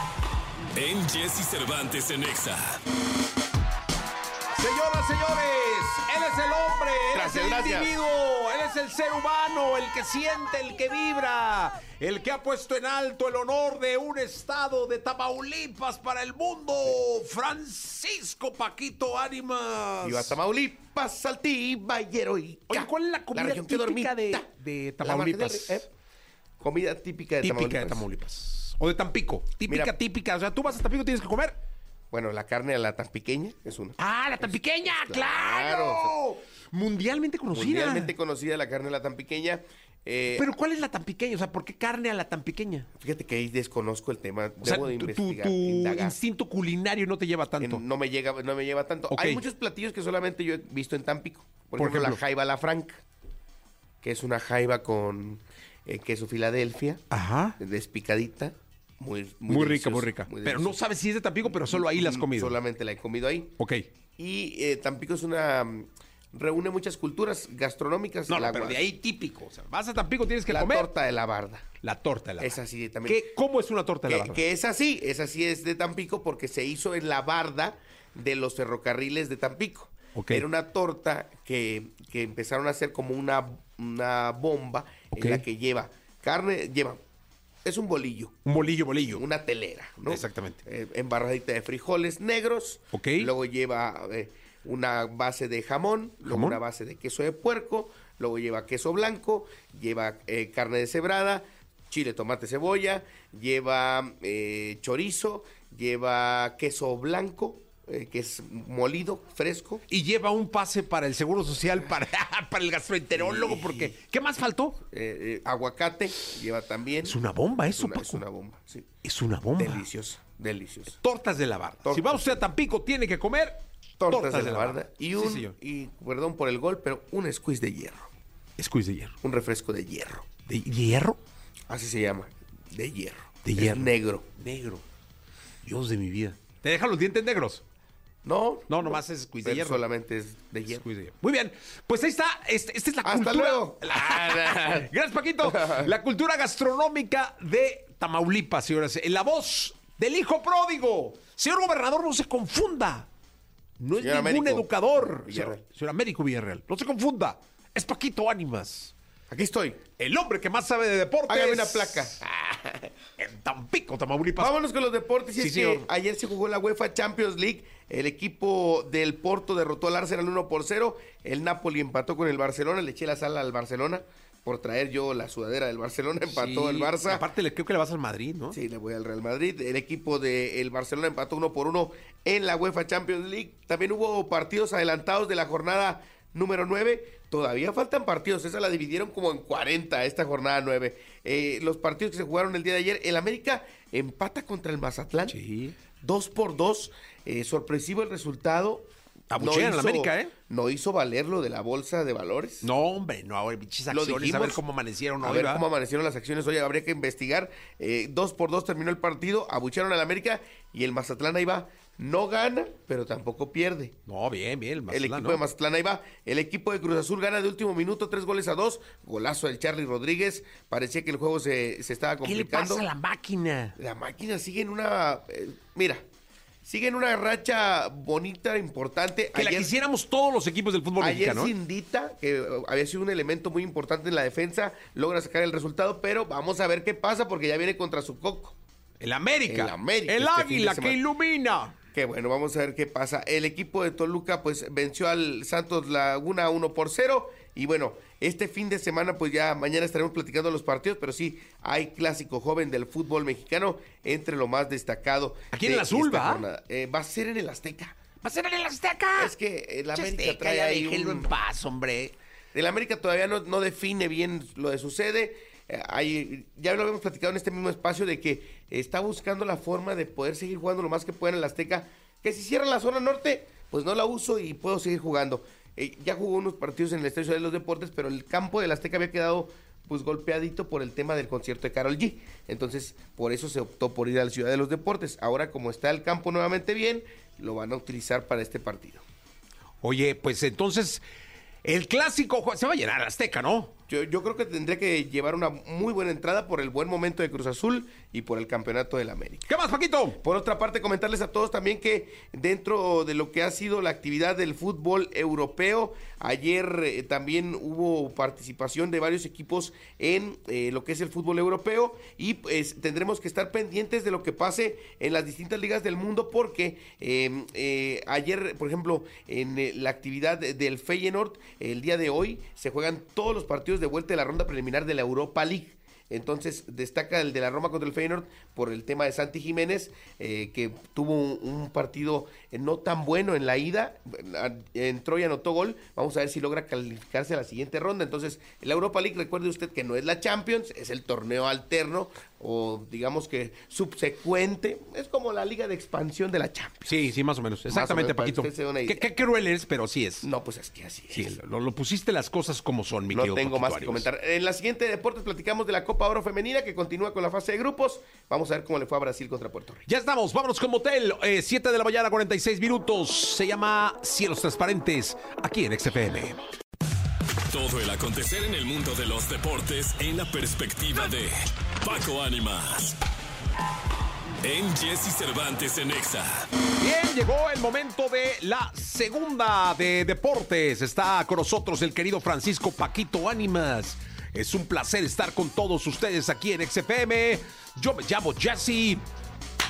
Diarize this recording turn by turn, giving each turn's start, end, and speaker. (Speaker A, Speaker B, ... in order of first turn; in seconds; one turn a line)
Speaker A: 0.7-2.8
Speaker B: 4.5-20.4
Speaker C: 7.1-7.9
Speaker C: 20.0-25.9
Speaker B: 22.7-25.9
Speaker C: 26.6-28.1
Speaker B: 27.4-31.6
Speaker C: 29.6-30.0
Speaker C: 32.1-36.1
Speaker B: 34.0-38.1
Speaker C: 37.5-40.5
Speaker B: 40.3-42.9
Speaker C: 43.0-46.2
Speaker B: 44.6-47.8
Speaker C: 47.6-53.0
Speaker B: 49.1-49.4
Speaker B: 51.8-52.2
Speaker C: 54.0-57.0
Speaker B: 57.1-57.6
Speaker C: 57.6-60.8
Speaker B: 59.5-62.6
Speaker C: 61.5-63.5
Speaker B: 63.6-63.9
Speaker C: 64.2-68.8
Speaker B: 68.3-70.9
Speaker C: 70.5-71.7
Speaker B: 71.8-74.4
Speaker C: 72.4-73.3
Speaker C: 74.1-87.0
Speaker B: 80.2-80.5
Speaker B: 85.1-85.4
Speaker C: 87.6-88.4
Speaker B: 88.5-89.2
Speaker C: 89.0-109.8
Speaker B: 90.1-90.6
Speaker B: 92.9-93.3
Speaker B: 96.2-96.6
Speaker B: 109.9-114.8
Speaker C: 113.1-114.0
Speaker C: 114.9-117.2
Speaker B: 117.0-118.2
Speaker C: 117.7-118.9
Speaker B: 119.0-119.8
Speaker C: 119.6-121.0
Speaker B: 121.0-125.5
Speaker C: 121.8-122.4
Speaker C: 124.0-128.1
Speaker B: 128.6-129.1
Speaker C: 129.2-130.3
Speaker B: 130.5-131.2
Speaker C: 131.7-134.3
Speaker B: 133.4-134.8
Speaker B: 135.7-137.6
Speaker C: 138.2-140.8
Speaker B: 138.7-139.8
Speaker B: 140.7-153.1
Speaker C: 143.0-144.9
Speaker C: 145.4-145.9
Speaker B: 153.8-158.9
Speaker C: 154.0-155.6
Speaker C: 159.3-159.8
Speaker B: 160.0-162.2
Speaker C: 161.3-162.9
Speaker B: 163.2-164.6
Speaker C: 164.4-177.2
Speaker B: 165.4-165.9
Speaker B: 176.2-178.6
Speaker C: 178.5-195.4
Speaker B: 195.3-195.7
Speaker C: 196.0-202.7
Speaker B: 199.3-200.3
Speaker B: 202.6-205.6
Speaker C: 203.9-204.6
Speaker C: 205.2-213.9
Speaker B: 214.1-215.4
Speaker C: 214.9-222.9
Speaker B: 222.2-223.8
Speaker C: 223.8-226.0
Speaker C: 226.6-229.7
Speaker B: 229.3-231.5
Speaker C: 231.0-238.6
Speaker B: 239.0-241.8
Speaker C: 239.5-241.0
Speaker C: 241.9-258.0
Speaker B: 255.5-256.4
Speaker B: 258.2-259.4
Speaker C: 259.1-261.3
Speaker B: 259.9-262.1
Speaker C: 262.5-289.0
Speaker B: 289.8-291.0
Speaker B: 291.6-293.7
Speaker C: 293.9-299.6
Speaker B: 299.5-300.2
Speaker C: 300.1-346.9
Speaker B: 346.9-350.3
Speaker C: 347.7-349.1
Speaker C: 350.2-351.4
Speaker B: 351.1-354.1
Speaker C: 353.1-359.9
Speaker B: 359.9-366.4
Speaker A: 367.5-373.0
Speaker A: 374.4-376.5
Speaker B: 376.8-389.0